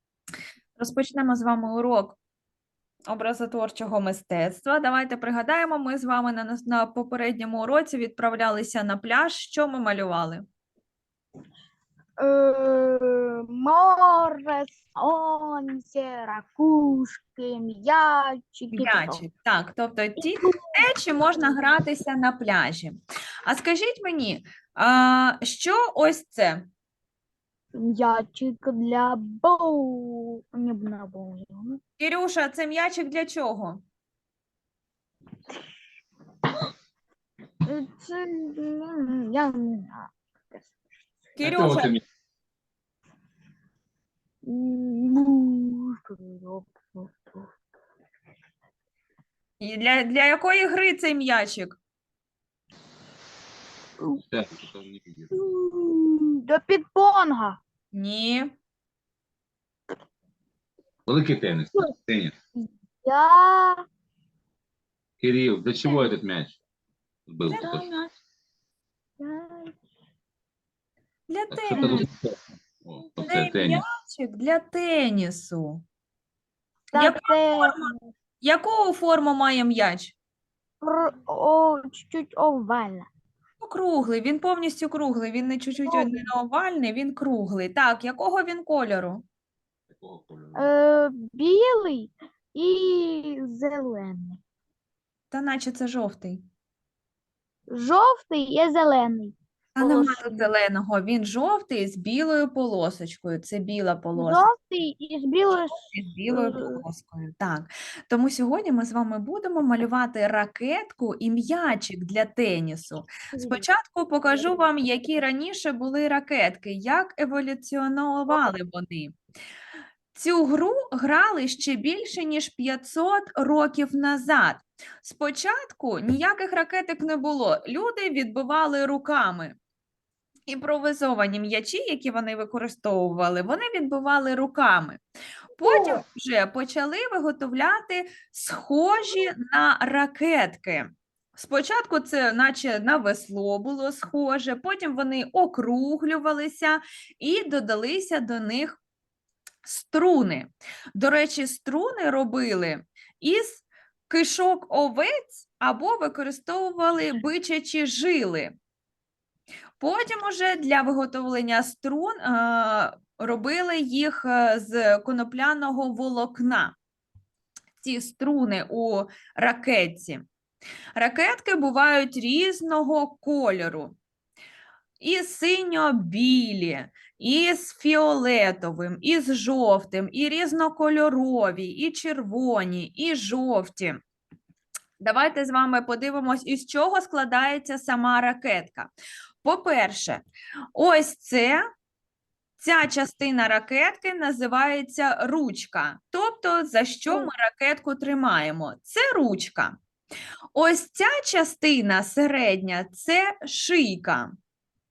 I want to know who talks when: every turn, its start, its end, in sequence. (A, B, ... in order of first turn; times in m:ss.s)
0:00.8-0:02.2 A
0:03.1-0:10.4 A
0:12.2-0:19.2 B
0:18.7-0:26.7 A
0:20.2-0:20.8 B
0:27.8-0:31.8 B
0:32.0-0:33.8 A
0:37.6-0:40.7 B
0:41.4-0:42.0 A
0:41.4-0:42.0 C
0:44.4-0:47.5 B
0:49.6-0:51.8 A
0:54.3-0:55.3 C
0:55.3-0:57.6 B
0:57.9-0:58.5 A
1:01.1-1:02.3 C
1:02.6-1:03.8 B
1:05.2-1:06.6 C
1:07.3-1:07.9 C
1:07.5-1:08.1 A
1:07.6-1:07.9 B
1:09.2-1:09.8 B
1:11.3-1:12.1 A
1:11.5-1:13.8 C
1:11.8-1:12.0 B
1:13.3-1:15.8 A
1:16.9-1:17.8 B
1:17.0-1:17.8 A
1:18.4-1:20.2 A
1:20.8-1:23.1 B
1:23.6-1:29.2 A
1:25.9-1:26.2 B
1:29.9-1:30.7 C
1:30.6-1:34.4 B
1:35.3-1:36.4 A
1:37.7-1:40.5 B
1:39.8-1:44.4 A
1:44.2-1:45.8 B
1:45.9-1:59.2 A
1:46.3-1:46.8 B
1:53.3-1:53.6 B
2:00.1-2:09.6 A
2:10.5-2:15.0 A
2:15.6-2:28.8 A
2:15.6-2:16.0 B
2:29.6-2:38.6 A
2:39.8-2:46.8 A
2:47.8-2:50.3 A
2:51.0-2:54.0 A
2:55.0-3:04.0 A
3:05.0-3:08.9 A
3:09.4-3:11.6 A
3:12.6-3:19.8 A
3:20.5-3:24.3 A